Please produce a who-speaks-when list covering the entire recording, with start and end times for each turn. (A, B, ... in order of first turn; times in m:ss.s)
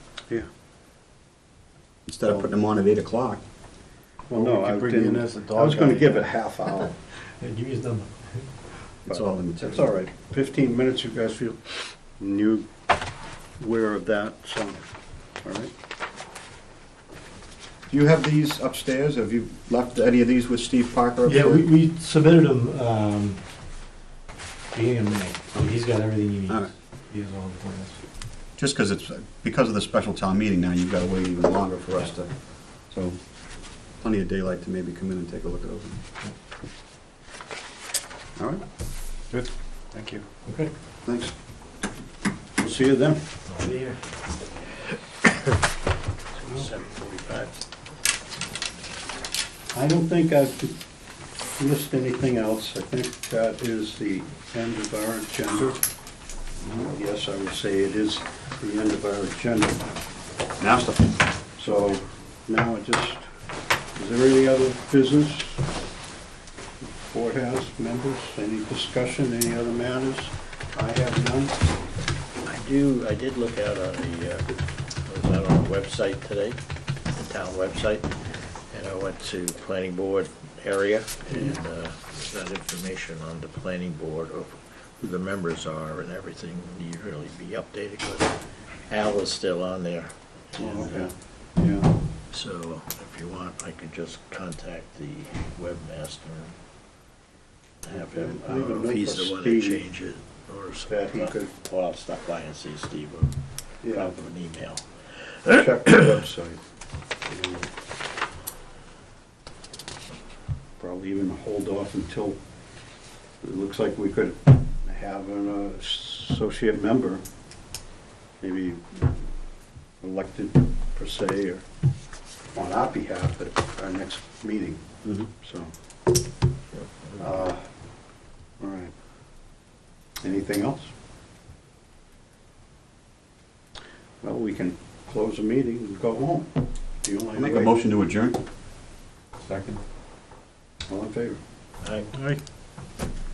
0:02.1-0:03.4 A
0:04.3-0:06.9 B
0:04.3-0:06.3 C
0:07.4-0:08.9 C
0:09.1-0:09.9 A
0:09.1-0:12.7 B
0:13.6-0:14.8 B
0:15.4-0:15.7 B
0:17.9-0:21.6 A
0:21.3-0:23.4 C
0:24.7-0:28.0 C
0:28.6-0:36.0 A
0:39.9-0:40.3 B
0:40.5-0:40.7 C
0:42.6-0:43.2 B
0:43.5-0:44.0 D
0:46.4-0:47.5 D
0:49.7-0:50.7 B
0:51.6-0:55.8 B
0:56.6-0:59.8 B
1:00.6-1:01.2 A
1:01.6-1:03.2 B
1:04.0-1:05.6 B
1:06.8-1:11.6 B
1:12.4-1:16.6 D
1:17.1-1:18.1 D
1:18.7-1:28.3 D
1:28.9-1:31.1 D
1:30.6-1:31.9 B
1:32.3-1:36.6 D
1:37.8-1:45.6 D
1:37.9-1:39.8 B
1:40.8-1:41.5 B
1:43.8-1:44.1 B
1:45.5-1:46.6 B
1:47.3-1:47.7 B
1:50.8-1:52.4 B
1:53.4-1:57.2 B
1:58.4-1:59.3 B
2:00.0-2:01.6 B
2:02.5-2:05.7 B
2:07.2-2:07.6 B
2:08.6-2:08.9 B
2:10.2-2:10.9 B
2:14.2-2:16.5 B
2:17.0-2:17.7 B
2:17.4-2:18.4 A
2:20.9-2:21.4 B
2:21.8-2:22.1 D